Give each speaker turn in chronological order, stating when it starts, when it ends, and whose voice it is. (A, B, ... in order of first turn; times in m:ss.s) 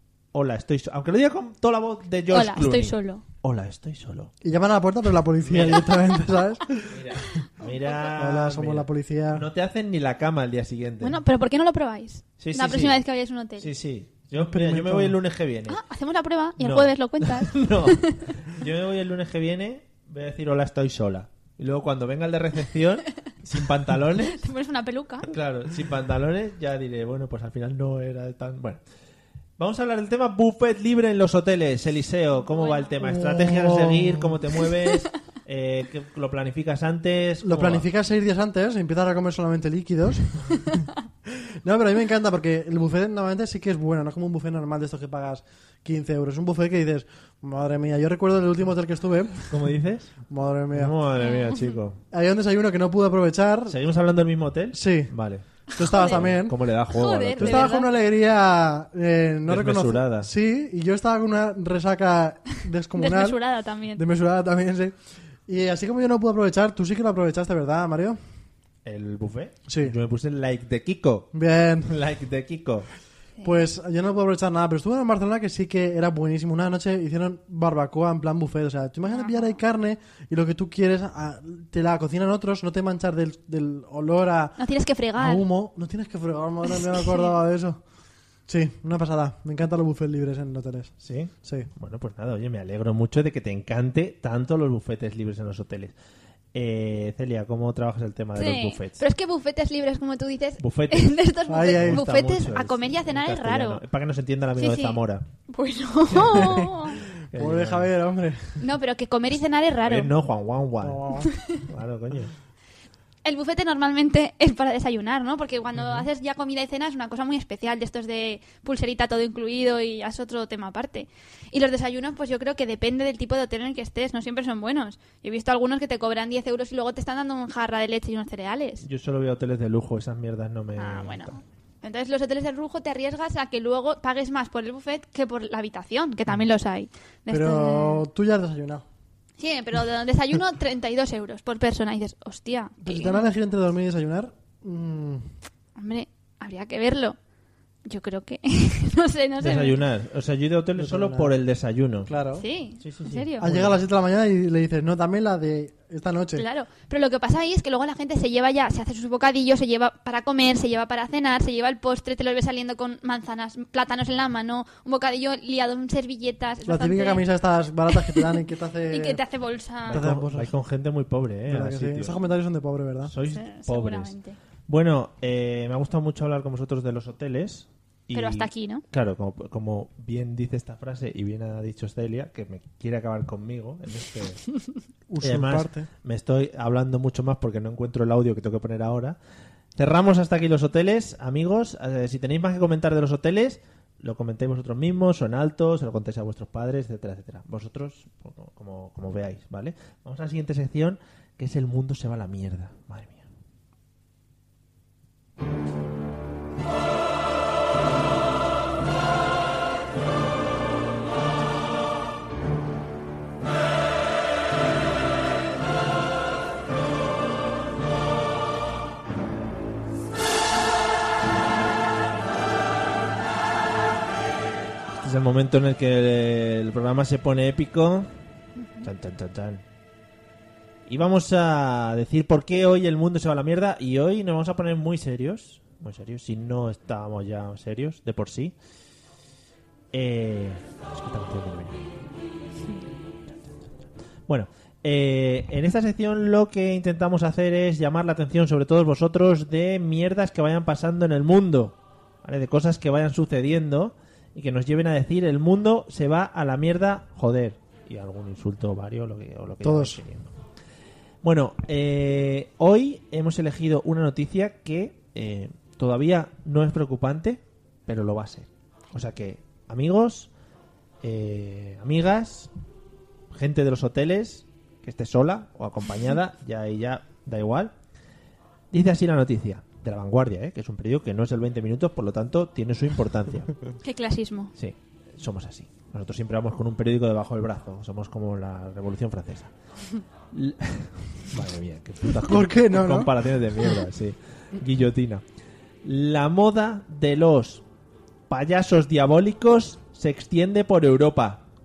0:00.3-0:04.3 A
0:02.3-0:03.2 B
0:04.4-0:07.0 C
0:05.4-0:05.9 A
0:06.8-0:11.2 A
0:08.2-0:09.5 C
0:11.0-0:13.7 B
0:12.4-0:13.0 A
0:13.6-0:15.8 A
0:14.4-0:15.2 C
0:15.7-0:18.2 B
0:16.6-0:24.4 A
0:24.3-0:25.3 B
0:25.3-0:28.8 A
0:29.6-0:37.9 A
0:32.5-0:32.9 B
0:33.0-0:34.4 C
0:37.4-0:49.5 C
0:49.5-0:50.1 A
0:50.3-0:50.9 C
0:50.7-0:52.0 A
0:51.2-0:51.7 B
0:52.1-0:53.8 C
0:53.7-0:55.4 A
0:54.7-0:55.1 C
0:55.7-0:56.6 C
0:55.7-0:56.3 B
0:56.1-0:57.7 A
0:56.9-0:57.9 B
0:57.4-1:03.4 C
0:59.5-1:00.3 A
1:03.0-1:04.0 B
1:03.9-1:04.9 C
1:05.5-1:08.2 C
1:08.8-1:11.3 A
1:09.7-1:09.9 C
1:11.3-1:11.9 C
1:11.8-1:12.9 A
1:13.4-1:13.6 B
1:13.4-1:24.6 C
1:19.1-1:19.6 B
1:24.6-1:25.4 B
1:25.2-1:27.8 C
1:26.8-1:27.3 B
1:28.5-1:31.7 C
1:31.0-1:35.9 A
1:36.5-1:39.0 A
1:38.4-1:43.8 B
1:40.6-1:45.2 A
1:41.5-1:42.0 C
1:44.6-1:47.0 B
1:46.1-1:46.6 A
1:46.2-1:48.6 C
1:47.3-1:47.9 A
1:48.6-1:50.1 B
1:49.8-1:52.3 A
1:50.8-1:51.3 C
1:51.2-1:51.6 B
1:53.2-2:08.8 B
1:55.8-1:56.1 A
2:08.8-2:11.4 A
2:10.8-2:18.0 B
2:17.3-2:18.8 C
2:19.4-2:23.3 B
2:22.8-2:25.3 C
2:25.8-2:27.2 B
2:27.8-2:29.8 B
2:29.4-2:32.1 A
2:30.8-2:31.3 C
2:32.1-2:32.4 C
2:32.4-2:33.5 B
2:32.8-2:33.8 A
2:33.4-2:36.4 C
2:36.3-2:47.2 B
2:46.6-2:49.2 C
2:47.9-2:48.4 B
2:48.9-2:50.0 B
2:49.9-2:50.5 C
2:49.9-2:52.2 A
2:51.5-2:53.1 C
2:53.0-2:54.1 A
2:53.3-2:54.4 B
2:54.7-3:04.4 A
2:58.1-2:58.8 B
3:05.1-3:05.9 C
3:05.2-3:09.2 A
3:09.8-3:23.3 A
3:45.0-3:48.1 A
3:48.6-3:48.9 B
3:48.8-3:49.6 A
3:50.9-3:58.5 A
3:59.9-4:01.9 A
4:04.3-4:20.3 A
4:19.6-4:20.0 C
4:21.2-4:30.3 A
4:31.0-4:32.5 A
4:33.3-4:37.7 A
4:38.7-4:43.5 A
4:43.8-4:44.5 B
4:44.6-4:49.5 A
4:50.3-4:55.2 A
4:52.2-4:53.1 C
4:55.8-4:57.6 A
4:58.3-5:01.4 A